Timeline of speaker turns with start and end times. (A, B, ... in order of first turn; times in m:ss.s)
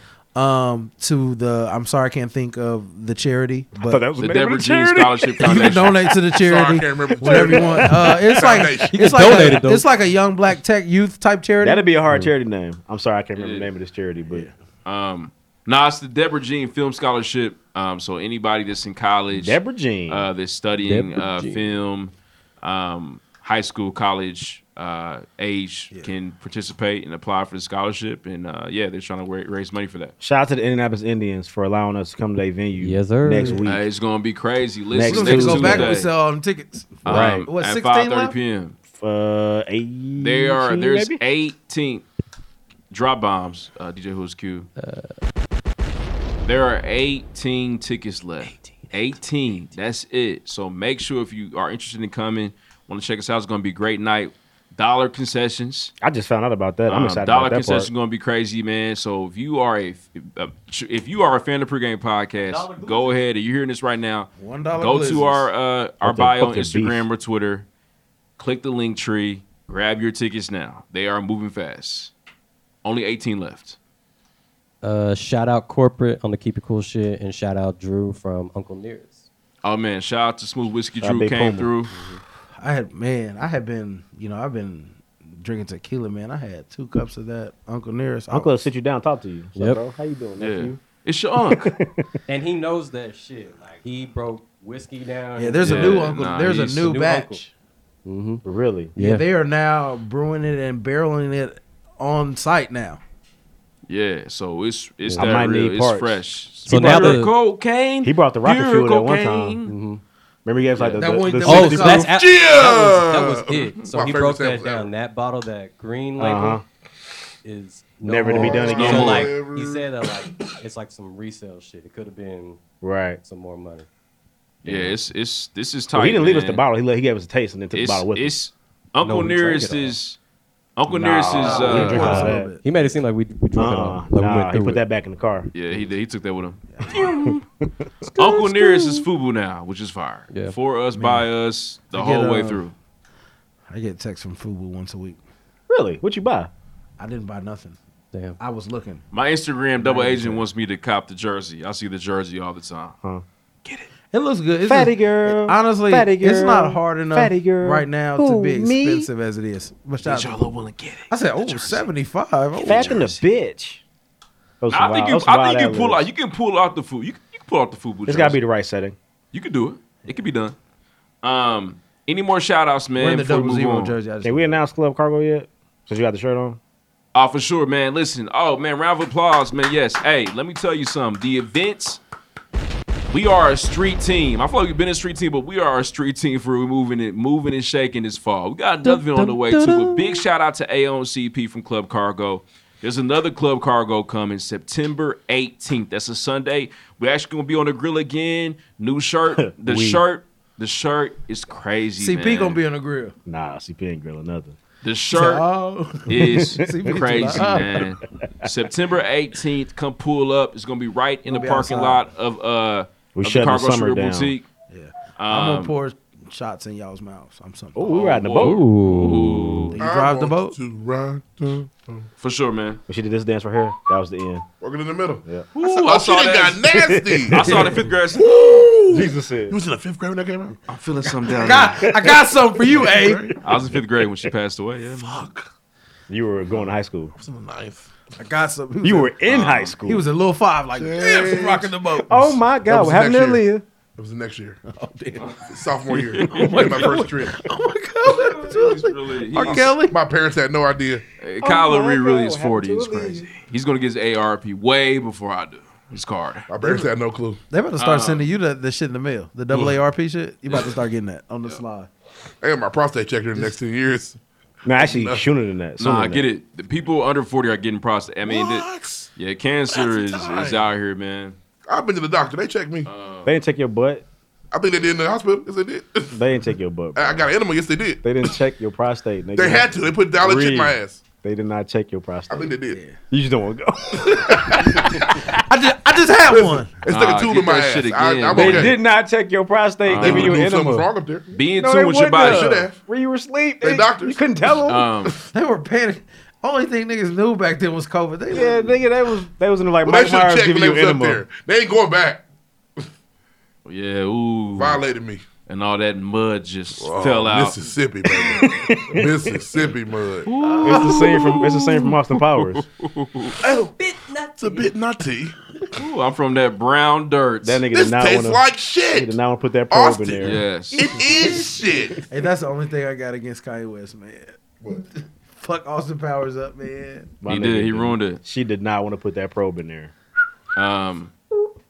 0:00.3-0:04.0 A
0:03.8-0:05.8 B
0:04.2-0:06.1 C
0:05.4-0:11.9 A
0:06.4-0:09.4 D
0:07.2-0:08.2 B
0:08.9-0:09.8 E
0:11.6-0:14.5 B
0:13.4-0:13.7 C
0:14.8-0:19.6 C
0:19.3-0:20.3 B
0:20.1-0:30.1 C
0:20.8-0:21.8 E
0:30.2-0:33.8 B
0:32.8-0:33.6 E
0:33.4-0:33.6 A
0:33.6-0:36.1 C
0:34.9-0:35.9 B
0:35.0-0:38.3 A
0:37.0-0:38.8 C
0:38.9-0:41.2 B
0:40.2-0:42.0 C
0:42.9-0:44.7 C
0:44.8-0:45.1 E
0:46.4-0:55.9 C
0:56.0-0:57.9 B
0:56.9-1:07.6 C
1:02.4-1:03.2 E
1:04.4-1:05.5 A
1:06.0-1:07.0 B
1:08.4-1:12.1 C
1:12.8-1:13.8 C
1:14.8-1:19.2 E
1:19.6-1:21.9 C
1:21.0-1:21.7 B
1:21.9-1:22.2 E
1:22.6-1:28.6 A
1:28.3-1:30.8 B
1:29.5-1:29.8 E
1:30.4-1:31.7 C
1:31.5-1:32.1 B
1:32.3-1:37.4 E
1:35.4-1:37.5 A
1:35.6-1:36.9 C
1:38.0-1:38.4 E
1:38.4-1:38.9 B
1:39.0-1:39.2 E
1:39.0-1:43.0 A
1:43.9-1:49.7 C
1:45.1-1:47.2 B
1:46.7-1:47.3 E
1:48.0-1:49.6 B
1:49.6-1:50.0 E
1:50.4-1:52.1 B
1:51.0-1:52.1 A
1:51.4-1:56.6 E
1:52.1-1:54.9 D
1:56.2-1:56.6 B
1:57.4-2:02.6 E
1:58.0-1:59.2 B
1:58.4-1:59.9 D
1:58.6-1:59.3 C
2:02.8-2:03.2 B
2:03.2-2:03.8 E
2:04.6-2:06.6 C
2:04.6-2:04.9 B
2:05.9-2:08.3 B
2:07.7-2:10.2 C
2:09.0-2:10.0 E
2:10.8-2:12.2 C
2:10.9-2:12.5 B
2:11.2-2:14.8 E
2:11.4-2:12.6 A
2:13.5-2:15.5 B
2:15.5-2:17.3 C
2:16.7-2:17.2 A
2:16.9-2:17.4 B
2:18.1-2:22.7 C
2:20.3-2:20.6 E
2:20.9-2:21.3 A
2:21.9-2:22.6 A
2:23.7-2:25.2 A
2:25.7-2:26.5 B
2:27.0-2:27.8 A
2:28.4-2:29.0 A
2:29.1-2:32.9 C
2:29.8-2:30.4 A
2:34.1-2:40.5 A
2:34.6-2:39.1 B
2:40.0-2:41.9 C
2:41.1-2:43.2 A
2:42.6-2:43.8 B
2:44.6-2:46.0 B
2:44.7-2:48.4 C
2:48.1-2:49.0 B
2:49.3-2:50.5 C
2:51.2-2:54.0 C
2:53.0-2:54.6 A
2:54.2-2:56.6 B
2:57.1-3:02.0 C
3:03.1-3:22.6 C
3:08.9-3:09.9 B
3:19.4-3:20.0 B
3:22.0-3:23.1 A
3:23.2-3:24.6 B
3:24.8-3:25.4 C
3:25.1-3:27.9 A
3:26.1-3:34.4 C
3:26.1-3:27.9 B
3:31.2-3:32.1 A
3:33.2-3:34.3 B
3:34.7-3:38.0 A
3:35.2-3:35.7 C
3:37.7-3:38.7 B
3:37.9-3:39.8 C
3:38.4-3:39.6 E
3:39.7-3:40.5 A
3:39.8-3:42.1 D
3:42.2-3:42.8 C
3:42.9-3:44.4 B
3:44.6-3:47.5 D
3:45.5-3:46.6 C
3:46.7-3:47.6 B
3:47.3-3:48.3 C
3:47.5-3:47.8 A
3:48.1-3:50.5 D
3:48.9-3:49.6 B
3:50.7-3:51.9 C
3:51.3-3:53.4 A
3:51.7-3:52.3 B
3:52.8-3:53.1 B
3:52.9-3:53.3 D
3:53.4-3:55.1 C
3:55.0-3:55.5 D
3:56.1-3:57.1 B
3:57.1-3:57.9 D
3:58.2-3:59.1 A
3:58.8-4:00.0 B
3:59.3-3:59.7 C
3:59.8-4:02.4 A
4:00.8-4:01.7 D
4:02.1-4:03.6 B
4:02.6-4:03.4 D
4:04.0-4:04.6 D
4:04.7-4:05.4 A
4:05.5-4:07.3 D
4:06.2-4:06.8 C
4:06.3-4:10.0 A
4:08.1-4:09.7 C
4:09.8-4:11.0 D
4:11.2-4:16.5 C
4:11.4-4:13.3 B
4:16.5-4:17.4 D
4:16.6-4:16.9 A
4:17.5-4:21.9 A
4:17.8-4:18.3 C
4:22.4-4:24.2 D
4:24.6-4:26.3 B
4:24.7-4:25.3 D
4:25.8-4:31.4 C
4:28.2-4:29.1 D
4:29.7-4:30.6 D
4:31.7-4:32.9 D
4:32.8-4:33.3 C
4:33.2-4:34.0 B
4:34.5-4:36.2 D
4:36.1-4:37.2 B
4:36.9-4:38.0 D
4:38.0-4:42.5 B
4:39.4-4:41.0 D
4:42.3-4:42.8 D
4:42.7-4:43.0 A
4:43.1-4:45.3 B
4:44.1-4:44.6 A
4:45.4-4:46.7 A
4:46.3-4:48.7 D
4:46.9-4:48.7 C
4:48.3-4:50.9 B
4:49.8-4:50.4 C
4:50.0-4:51.3 D
4:51.3-4:52.5 C
4:51.6-4:54.9 B
4:52.2-4:52.8 D
4:53.6-4:54.2 D
4:54.6-4:55.1 C
4:55.3-4:58.8 A
4:58.3-5:01.2 B
4:59.8-5:02.2 D
5:03.6-5:04.8 C
5:04.5-5:05.2 D
5:05.5-5:07.6 C
5:06.8-5:10.3 D
5:08.3-5:09.2 B
5:10.3-5:13.4 C
5:10.4-5:11.2 A
5:10.6-5:12.6 B
5:13.4-5:13.7 D
5:14.4-5:15.3 D
5:15.8-5:17.6 C
5:17.4-5:20.4 B
5:17.7-5:19.2 D
5:19.7-5:22.0 D
5:20.2-5:20.9 C
5:21.0-5:21.4 B
5:22.1-5:27.1 A
5:27.2-5:29.9 B
5:27.3-5:28.2 C
5:30.6-5:31.1 C